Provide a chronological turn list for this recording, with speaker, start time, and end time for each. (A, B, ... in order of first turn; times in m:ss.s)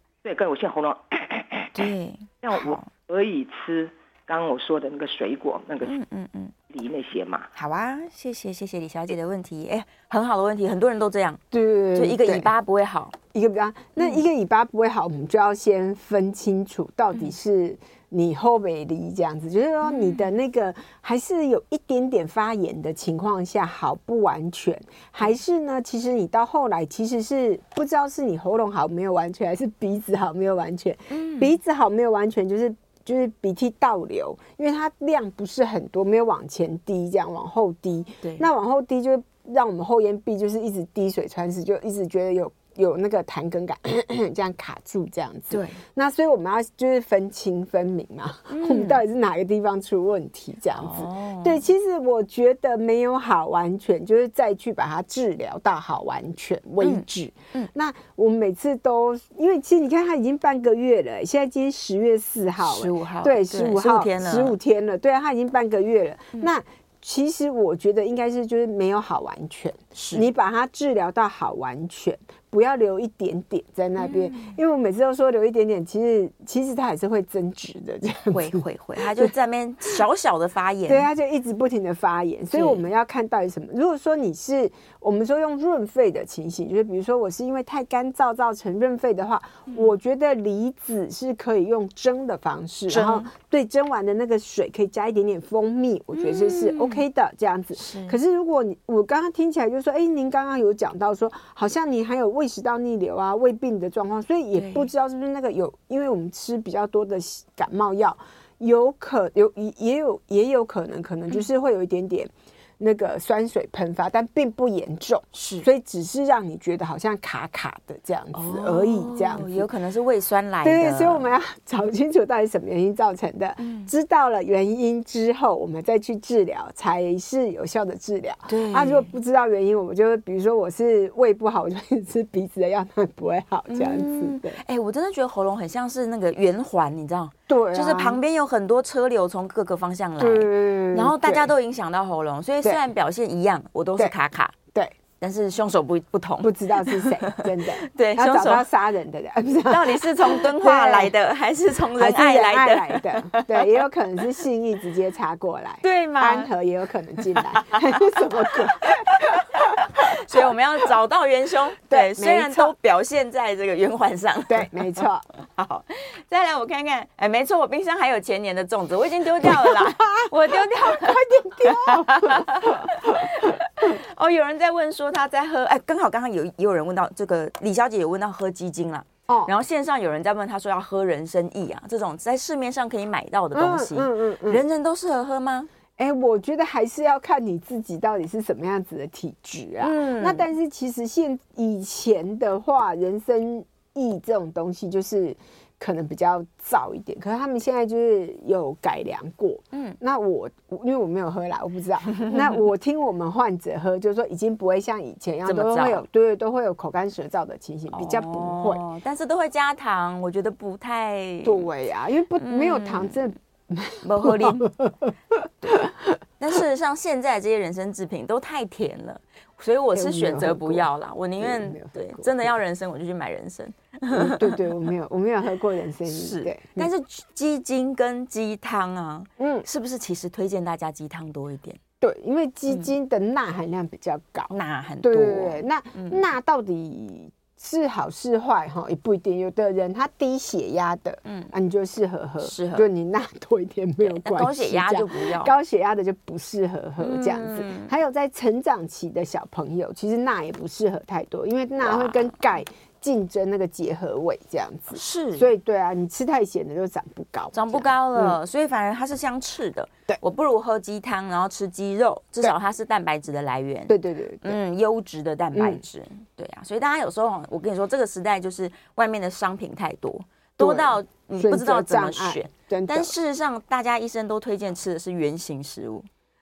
0:00.2-0:01.9 A
0:01.7-0:02.9 B
0:02.4-0:06.0 A
0:05.8-0:06.5 B
0:06.7-0:07.5 A
0:07.6-0:11.4 B
0:11.5-0:12.5 C
0:11.9-0:13.1 B
0:13.3-1:19.3 C
0:14.0-0:14.2 B
0:19.8-0:20.3 B
0:31.1-0:31.6 B
0:45.5-0:45.8 B
0:48.5-0:49.0 B
0:50.8-0:51.6 B
0:56.8-0:57.7 B
1:02.6-1:04.6 B
1:09.9-1:10.2 B
1:14.0-1:14.6 B
1:18.3-1:21.1 B
1:20.9-1:59.7 C
1:22.5-1:22.8 B
1:32.9-1:33.3 B
1:36.1-1:37.0 B
1:37.8-1:38.2 B
1:44.5-1:44.9 B
1:55.3-1:55.6 B
1:58.3-2:01.3 B
2:00.6-2:14.6 C
2:03.6-2:03.9 B
2:08.5-2:09.1 B
2:13.7-2:24.6 B
2:17.5-2:18.2 C
2:20.2-2:21.5 C
2:25.2-2:28.7 B
2:26.4-2:31.1 C
2:29.6-2:33.8 B
2:31.9-2:39.7 C
2:35.8-2:36.5 B
2:37.6-3:05.7 B
2:41.9-2:42.7 C
2:44.5-2:45.2 C
2:49.4-2:53.2 C
2:59.3-2:59.5 C
3:03.5-3:04.6 C
3:06.0-3:28.8 C
3:09.8-3:10.4 B
3:19.7-3:20.0 B
3:25.4-3:26.0 B
3:27.9-3:31.7 B
3:31.4-3:35.8 C
3:32.4-3:33.2 B
3:34.0-3:34.7 B
3:35.6-3:44.7 B
3:39.9-3:40.9 C
3:41.4-3:42.5 C
3:44.1-3:46.9 C
3:46.1-3:51.8 B
3:49.4-3:49.6 C
3:52.0-3:54.5 C
3:54.5-3:56.2 B
3:55.0-4:18.4 C
4:01.2-4:01.5 B
4:02.4-4:02.9 B
4:04.0-4:05.5 B
4:07.0-4:07.9 B
4:11.8-4:12.4 B
4:14.9-4:15.5 B
4:17.5-4:36.1 B
4:23.9-4:24.6 C
4:25.5-4:25.8 C
4:30.6-4:33.1 C